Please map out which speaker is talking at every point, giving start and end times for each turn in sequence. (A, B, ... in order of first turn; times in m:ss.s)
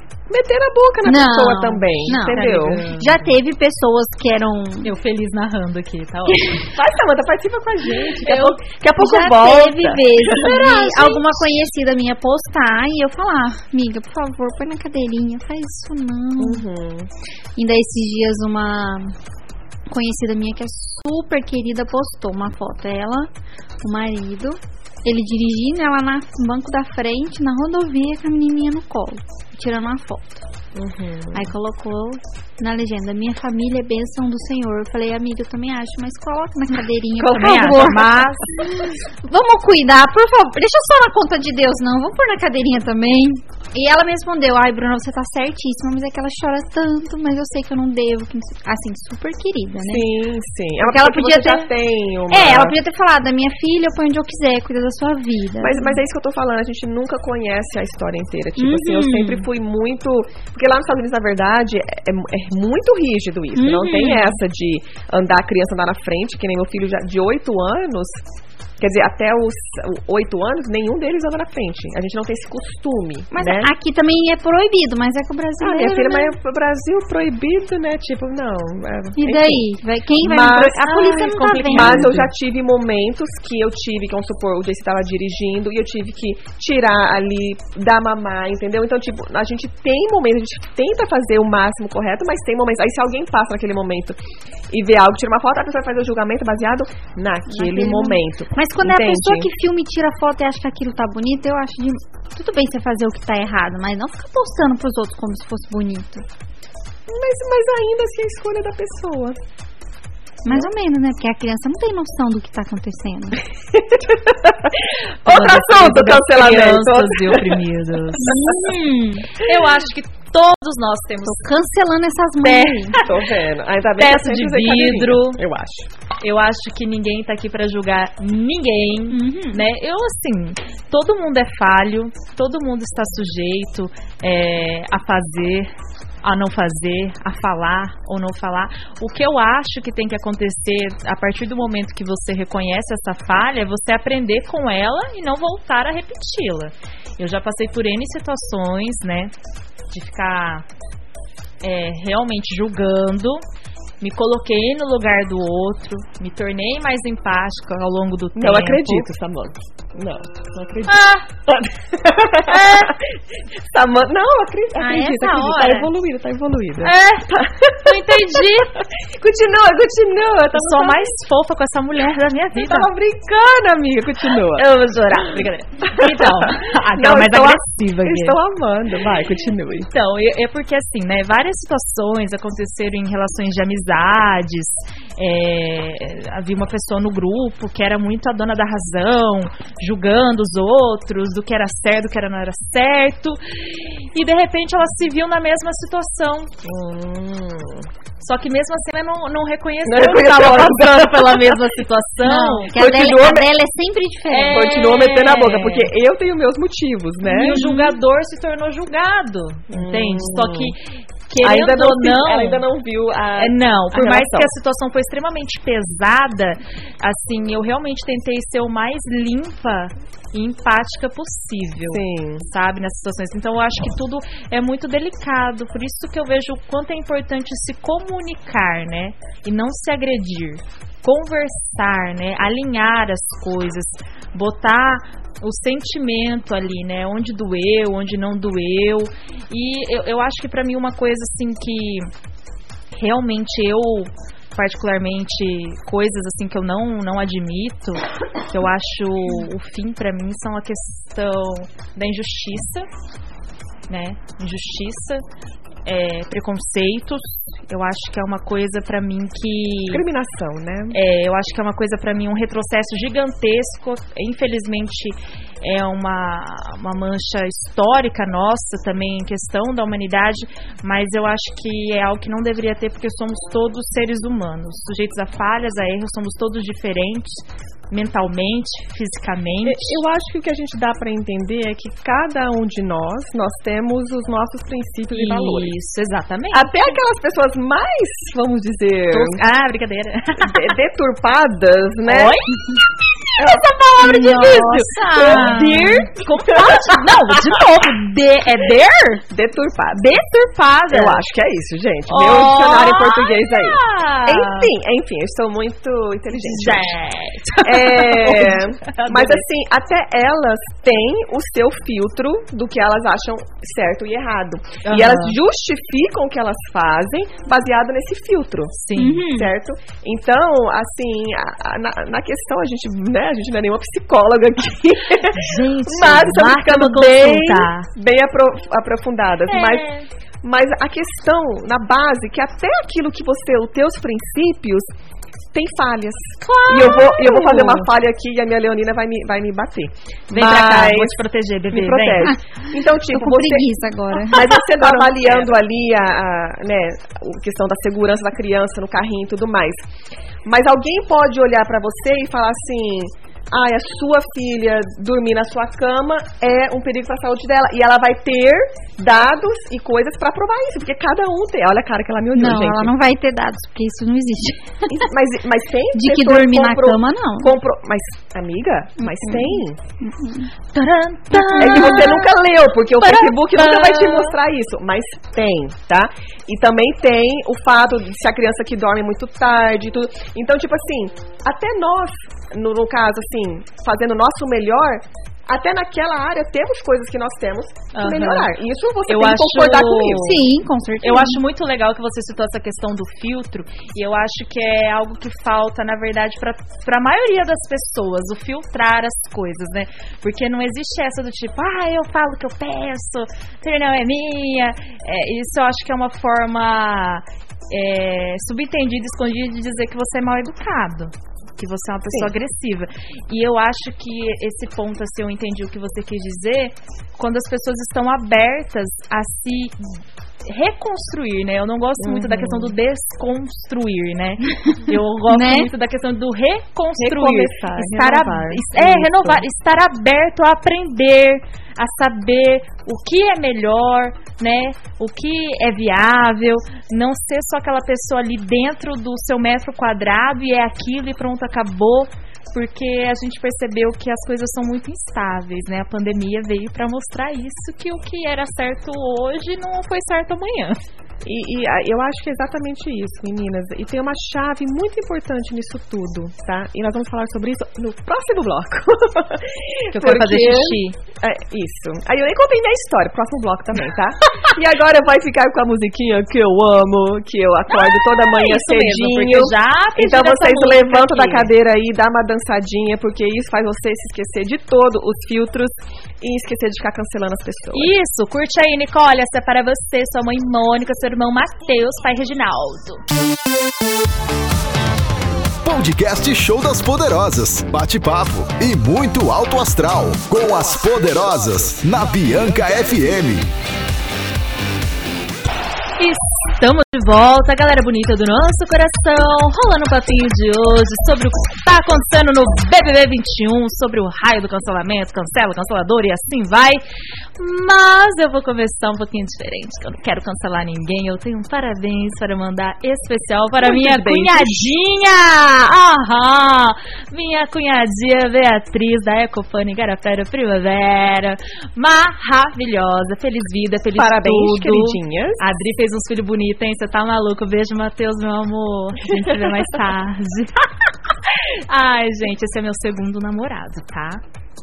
0:00.3-0:02.9 A
0:01.0-0:04.9 B
0:02.1-0:03.3 C
0:04.8-0:06.6 C
0:06.3-0:06.7 B
0:06.7-0:11.3 A
0:08.2-0:08.6 C
0:09.0-0:16.6 B
0:16.4-0:17.1 A
0:17.6-0:19.1 B
0:19.9-0:23.3 B
0:23.8-0:30.4 B
0:30.7-0:31.5 A
0:31.3-0:50.0 B
0:37.2-0:38.1 A
0:37.3-0:38.4 C
0:49.8-0:52.7 A
0:50.8-0:51.7 B
0:52.3-0:56.0 B
0:55.6-1:08.2 A
0:58.6-0:59.5 B
1:03.5-1:04.4 B
1:08.8-1:13.7 A
1:13.3-1:16.4 B
1:15.6-1:19.6 A
1:19.2-1:22.1 B
1:20.2-1:20.8 A
1:20.8-1:22.3 C
1:21.6-1:34.2 A
1:34.7-1:39.5 A
1:37.5-1:46.2 B
1:47.1-1:49.4 A
1:50.4-1:53.4 B
1:53.7-1:57.6 A
1:55.2-1:58.3 C
1:58.2-1:59.3 B
1:59.4-2:01.4 C
2:01.2-2:03.0 B
2:02.4-2:03.1 C
2:03.0-2:05.9 A
2:04.0-2:05.4 C
2:06.2-2:15.7 C
2:09.1-2:09.6 B
2:16.2-2:29.3 C
2:29.9-2:30.6 C
2:31.6-2:33.4 C
2:34.0-2:39.1 C
2:38.4-2:51.0 A
2:40.9-2:41.2 C
2:42.5-2:42.9 C
2:44.8-2:45.9 B
2:46.8-2:47.3 C
2:47.8-2:48.7 C
2:50.5-2:52.9 C
2:52.6-2:59.9 A
2:54.5-2:58.4 C
2:59.9-3:16.5 C
3:16.6-3:17.9 A
3:18.2-3:22.7 C
3:19.8-3:21.6 A
3:22.2-3:24.6 B
3:22.7-3:23.5 A
3:24.3-3:25.9 C
3:24.5-3:27.8 A
3:27.2-3:30.8 C
3:29.7-3:30.7 A
3:31.3-3:32.6 C
3:31.4-3:34.5 A
3:33.4-4:02.1 C
3:41.9-3:42.4 A
4:02.9-4:12.9 C
4:13.9-4:15.2 C
4:15.8-4:20.0 C
4:19.9-4:21.0 A
4:20.9-4:40.0 C
4:39.6-4:45.7 A
4:45.1-4:46.7 C
4:46.5-4:49.4 A
4:49.1-4:50.7 C
4:50.4-4:52.4 A
4:52.0-4:52.8 C
4:53.4-4:54.6 A
4:53.4-4:59.2 C
4:54.0-4:55.8 B
4:55.2-4:57.6 A
4:59.3-5:00.1 A
4:59.9-5:01.2 C
5:00.9-5:06.9 A
5:02.1-5:04.7 C
5:06.3-5:09.4 C
5:07.6-5:29.9 A
5:14.8-5:15.4 C
5:18.8-5:19.2 C
5:19.0-5:19.5 B
5:25.4-5:27.9 C
5:29.5-5:30.1 C
5:30.4-5:34.9 A
5:35.5-5:41.2 A
5:36.4-5:37.9 C
5:40.3-5:42.3 C
5:41.7-5:43.7 A
5:43.1-5:45.0 B
5:44.2-5:49.8 A
5:44.4-5:45.5 C
5:50.4-6:02.9 A
6:02.3-6:05.1 B
6:04.9-6:09.8 A
6:05.9-6:07.5 B
6:09.0-6:10.5 B
6:10.7-6:12.3 C
6:11.3-6:12.1 B
6:11.6-6:30.4 A
6:13.0-6:14.4 C
6:27.9-6:28.5 C
6:29.1-6:30.4 C
6:30.2-6:31.4 B
6:31.0-7:30.8 C
7:02.0-7:02.7 A
7:05.3-7:05.7 B
7:07.0-7:09.4 A
7:31.2-7:57.9 A
7:39.9-7:41.0 C
7:47.7-7:51.5 C
7:57.7-8:03.0 C
8:05.6-8:13.5 D
8:16.0-8:26.8 C
8:27.4-8:50.6 C
8:33.6-8:34.6 A
8:44.0-8:45.4 A
8:51.3-8:54.2 C